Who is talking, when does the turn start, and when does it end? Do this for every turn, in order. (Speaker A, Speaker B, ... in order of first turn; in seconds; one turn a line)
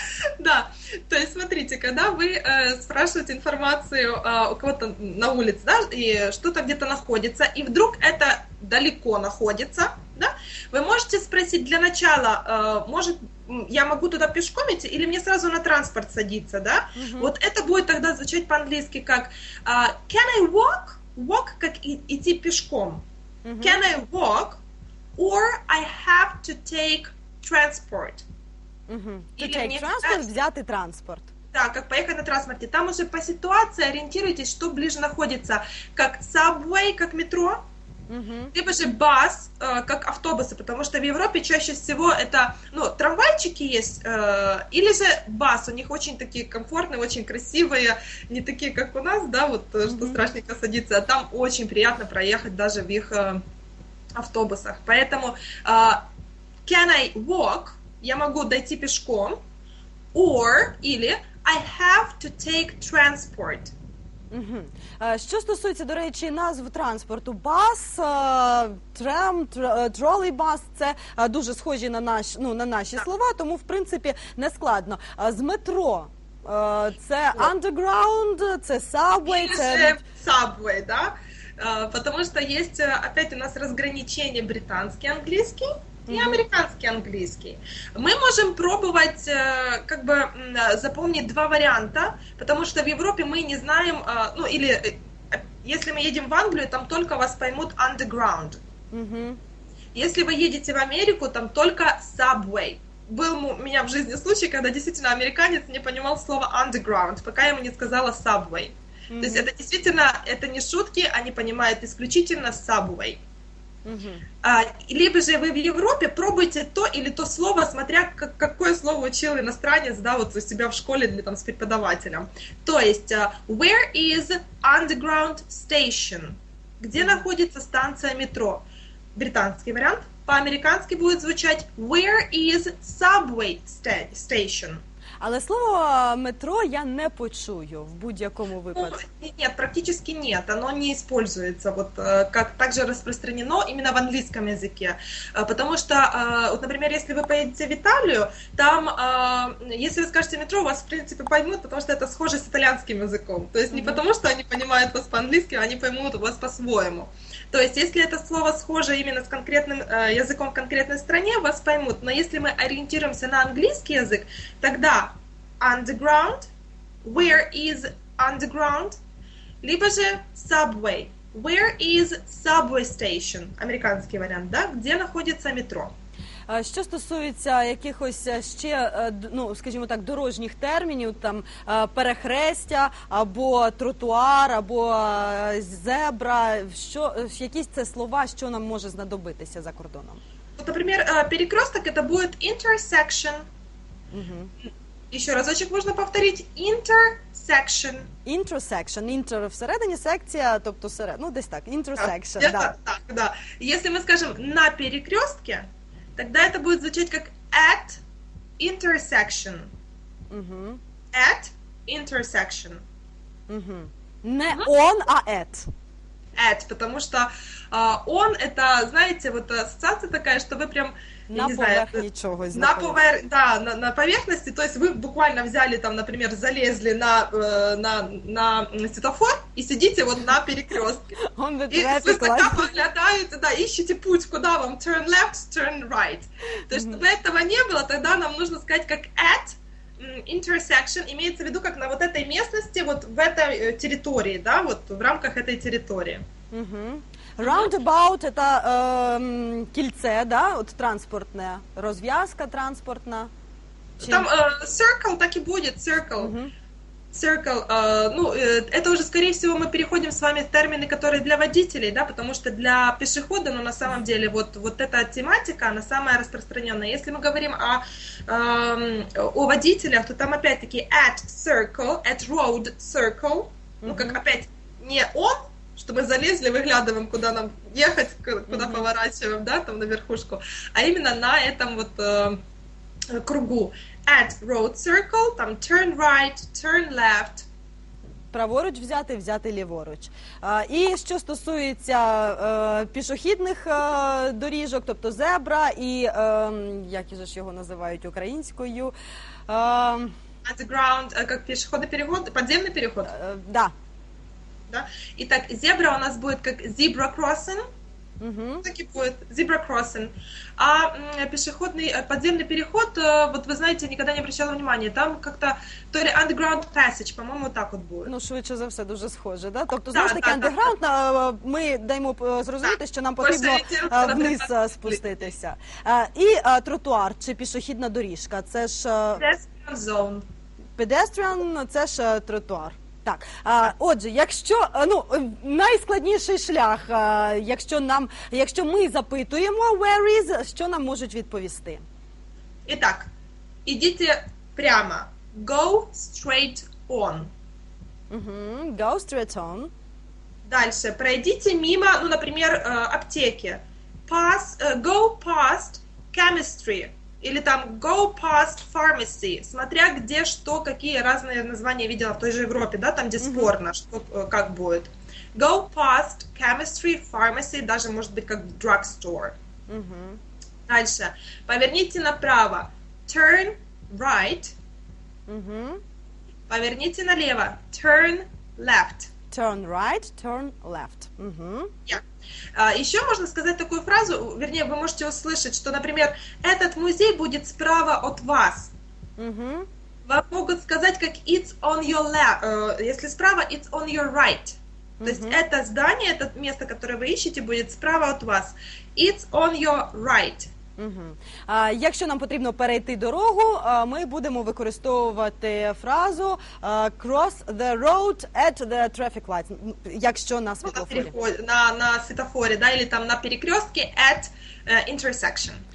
Speaker A: 0.4-23.0
Speaker B: 16.9-17.3
Speaker B: 23.4-23.8
Speaker A: 23.6-24.6
Speaker A: 25.2-28.2
Speaker B: 28.9-31.3
Speaker A: 29.4-30.2
Speaker A: 31.5-37.6
Speaker B: 38.1-38.5
Speaker A: 38.5-53.4
Speaker B: 49.9-50.2
Speaker A: 54.1-56.0
Speaker A: 56.6-59.4
Speaker A: 60.1-63.7
Speaker B: 64.3-80.0
Speaker A: 79.2-98.6
Speaker B: 86.1-86.4
Speaker B: 98.9-99.4
Speaker A: 99.9-113.2
Speaker B: 109.1-109.5
Speaker B: 113.8-114.2
Speaker A: 114.4-134.8
Speaker B: 127.0-127.2
Speaker B: 135.2-139.0
Speaker A: 138.7-166.5
Speaker B: 153.7-154.0
Speaker A: 167.0-169.0
Speaker A: 169.6-175.9
Speaker B: 176.5-190.2
Speaker A: 190.6-193.4
Speaker B: 194.1-194.5
Speaker A: 195.1-198.1
Speaker B: 198.2-202.7
Speaker A: 202.0-208.0
Speaker A: 208.6-209.7
Speaker B: 210.3-210.8
Speaker A: 211.1-212.8
Speaker B: 213.5-215.7
Speaker A: 216.3-231.2
Speaker B: 221.3-223.0
Speaker B: 231.3-232.7
Speaker A: 231.7-246.2
Speaker B: 236.7-237.0
Speaker B: 246.5-253.3
Speaker A: 247.4-247.7
Speaker B: 254.0-254.3
Speaker A: 254.0-256.3
Speaker B: 256.2-256.5
Speaker A: 257.1-282.4
Speaker B: 273.8-274.2
Speaker B: 278.5-278.9
Speaker A: 283.1-287.5
Speaker B: 288.3-298.9
Speaker B: 299.5-300.1
Speaker A: 300.4-303.1
Speaker B: 303.1-303.7
Speaker A: 304.7-307.6
Speaker B: 308.2-308.6
Speaker A: 308.6-318.1
Speaker B: 318.1-329.2
Speaker A: 319.9-320.7
Speaker A: 322.6-325.3
Speaker A: 329.1-330.2
Speaker B: 330.8-341.8
Speaker A: 342.7-343.1
Speaker A: 343.6-347.3
Speaker B: 348.1-349.7
Speaker A: 350.5-369.4
Speaker B: 363.2-363.5
Speaker B: 369.7-370.2
Speaker A: 370.7-374.5
Speaker B: 375.3-375.8
Speaker A: 376.5-379.1
Speaker B: 379.3-381.7
Speaker A: 382.5-388.7
Speaker B: 389.2-389.7
Speaker A: 390.0-400.5
Speaker B: 395.0-395.4
Speaker B: 400.8-411.1
Speaker A: 410.6-415.6